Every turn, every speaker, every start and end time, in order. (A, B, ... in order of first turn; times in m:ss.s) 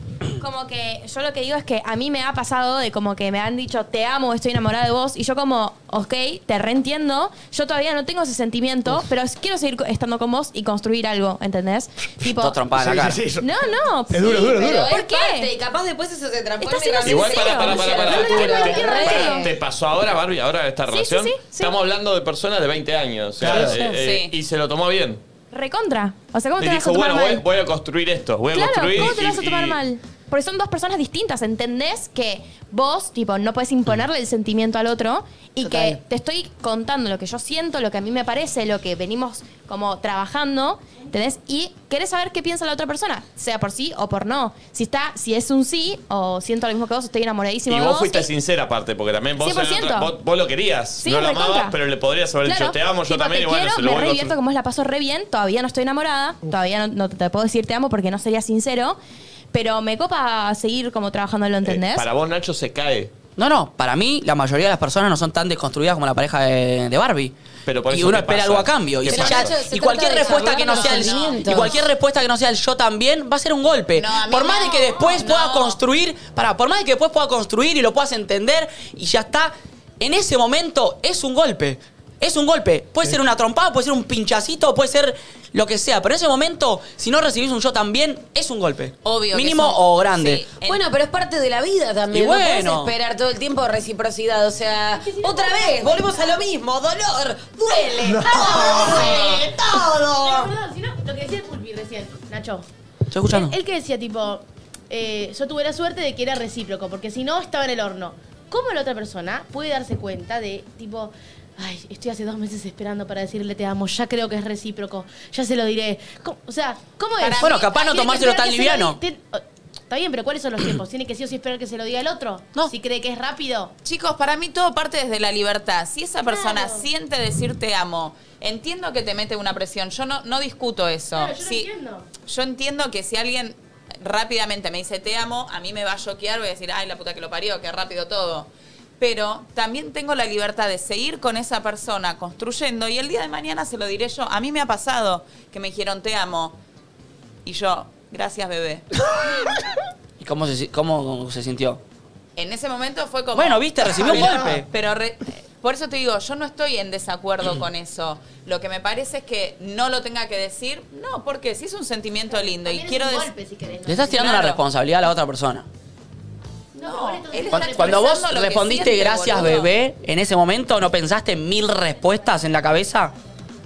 0:00.4-0:12.7 A
0:12.3-0:13.2 B
0:12.7-0:13.5 C
0:13.3-0:15.5 A
0:14.1-0:14.9 C
0:14.2-0:19.5 D
0:16.6-0:17.9 A
0:17.0-0:25.2 E
0:17.9-0:19.4 F
0:18.4-0:19.4 A
0:20.9-0:21.8 A
0:23.4-0:23.9 C
0:23.7-0:24.3 G
0:25.5-0:27.4 A
0:26.6-0:29.8 E
0:28.5-0:48.3 A
0:35.6-0:36.0 D
0:47.7-0:54.4 E
0:49.4-0:50.1 A
0:51.0-0:51.8 A
0:52.4-0:59.0 A
0:59.5-1:02.1 A
1:01.6-1:03.1 E
1:03.4-1:07.3 B
1:07.6-1:09.6 E
1:07.9-1:30.5 B
1:09.0-1:11.9 D
1:10.2-1:11.5 G
1:14.0-1:15.8 G
1:29.0-1:30.8 G
1:30.6-1:40.5 D
1:32.1-1:32.9 B
1:34.9-1:36.4 F
1:37.8-1:39.5 F
1:38.0-1:39.1 C
1:40.2-1:42.6 F
1:43.1-1:43.6 B
1:43.2-2:03.7 F
1:57.2-1:57.6 G
1:57.4-1:59.0 B
2:03.8-2:11.7 G
2:06.2-2:06.8 F
2:11.1-2:12.0 F
2:12.2-2:26.6 G
2:27.4-2:28.8 G
2:30.2-2:31.8 B
2:32.4-2:43.3 G
2:33.3-2:34.6 B
2:34.0-2:34.6 C
2:42.3-2:44.6 F
2:43.8-2:45.6 B
2:44.1-2:44.6 G
2:46.7-2:48.3 F
2:46.8-2:49.7 G
2:47.5-2:53.1 B